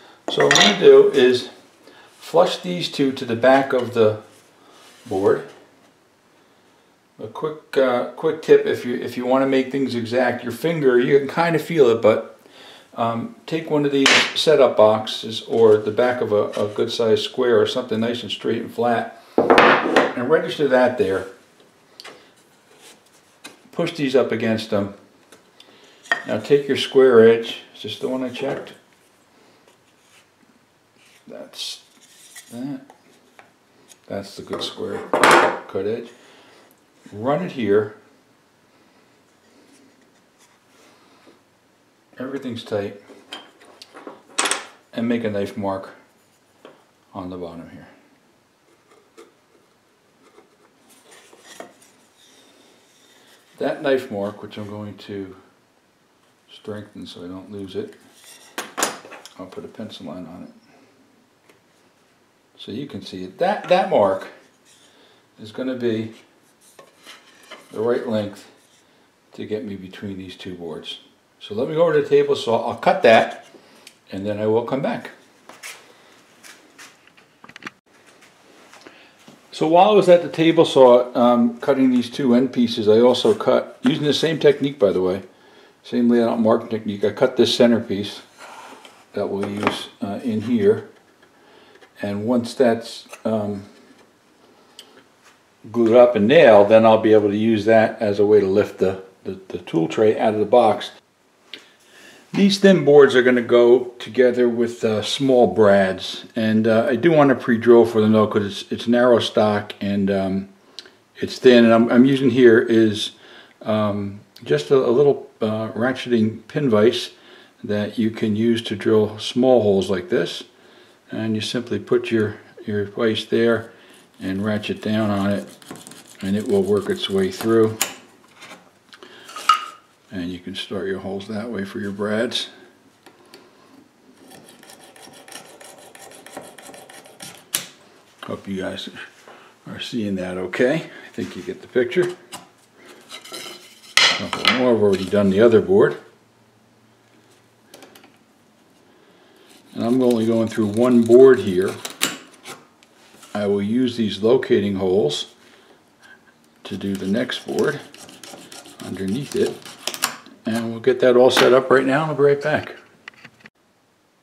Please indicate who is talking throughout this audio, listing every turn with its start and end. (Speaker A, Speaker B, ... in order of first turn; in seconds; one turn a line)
Speaker A: 0.3-1.5
Speaker A: 2.2-4.2
Speaker A: 5.0-5.5
Speaker A: 7.2-12.4
Speaker A: 12.9-19.2
Speaker A: 20.1-21.3
Speaker A: 23.7-24.9
Speaker A: 26.2-28.8
Speaker A: 31.3-31.8
Speaker A: 32.5-32.9
Speaker A: 34.1-36.1
Speaker A: 37.1-38.0
Speaker A: 42.2-43.0
Speaker A: 44.9-46.0
Speaker A: 47.1-47.9
Speaker A: 53.5-55.4
Speaker A: 56.5-58.0
Speaker A: 59.4-60.5
Speaker A: 62.5-64.3
Speaker A: 65.4-66.1
Speaker A: 67.7-68.5
Speaker A: 69.3-73.5
Speaker A: 74.1-75.1
Speaker A: 79.5-85.2
Speaker A: 85.8-88.2
Speaker A: 89.1-90.9
Speaker A: 92.0-93.7
Speaker A: 95.7-100.9
Speaker A: 102.3-110.5
Speaker A: 111.2-120.5
Speaker A: 121.1-123.7
Speaker A: 124.2-125.5
Speaker A: 126.2-127.8
Speaker A: 130.1-132.5
Speaker A: 138.2-139.1
Speaker A: 139.6-142.1
Speaker A: 144.1-146.0
Speaker A: 149.7-151.8
Speaker A: 153.3-155.3
Speaker A: 156.6-157.8
Speaker A: 158.8-159.6
Speaker A: 160.4-162.8